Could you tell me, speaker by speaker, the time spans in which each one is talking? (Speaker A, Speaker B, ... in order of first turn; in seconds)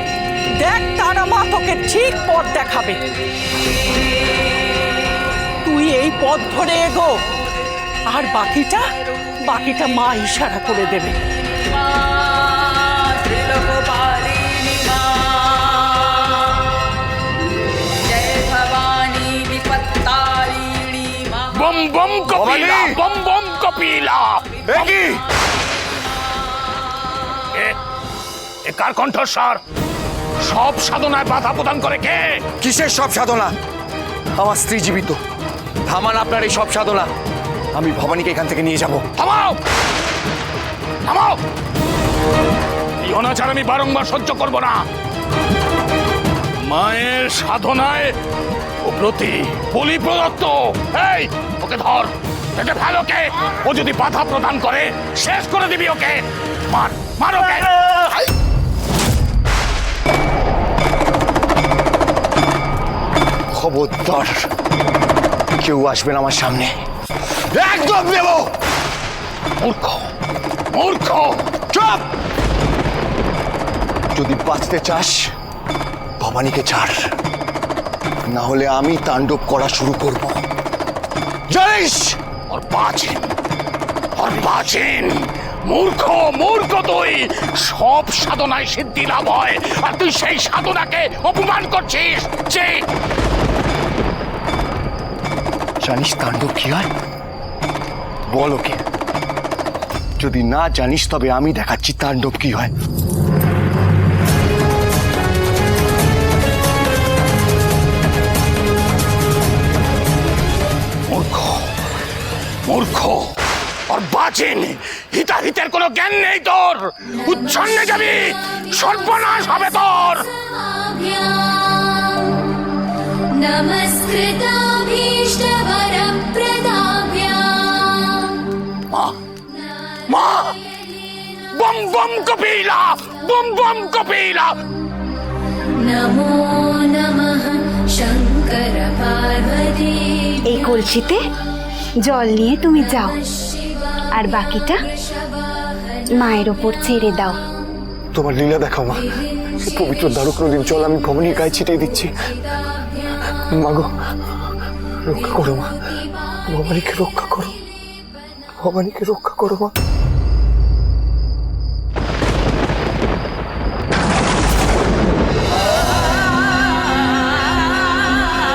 Speaker A: 0.5-3.0, 5.6-7.2, 8.1-11.2
Speaker B: 21.5-25.0, 28.7-29.6, 30.4-32.4, 39.2-39.6, 41.1-41.4, 43.0-44.8, 46.6-48.1, 48.8-58.1, 69.6-70.1, 70.7-71.4, 82.5-83.3, 84.2-92.8, 111.1-111.7, 112.7-113.3, 113.9-120.5, 128.9-129.2, 129.9-130.7, 131.3-134.5
Speaker C: 22.3-23.0, 24.7-25.2, 32.6-33.5, 34.4-35.2, 35.9-37.1, 37.7-39.0, 63.5-64.5, 65.6-66.7, 67.5-68.5, 71.7-72.1, 74.1-75.3, 76.2-77.0, 78.3-80.4, 81.5-82.2, 95.8-96.9, 98.3-98.8, 100.2-102.7, 148.2-149.1, 149.6-152.1, 153.6-153.9, 155.1-155.7, 156.5-157.5, 158.6-159.7
Speaker D: 123.7-127.8, 136.5-137.5, 138.1-139.7
Speaker E: 140.5-141.2, 142.0-143.2, 144.2-144.9, 146.2-147.4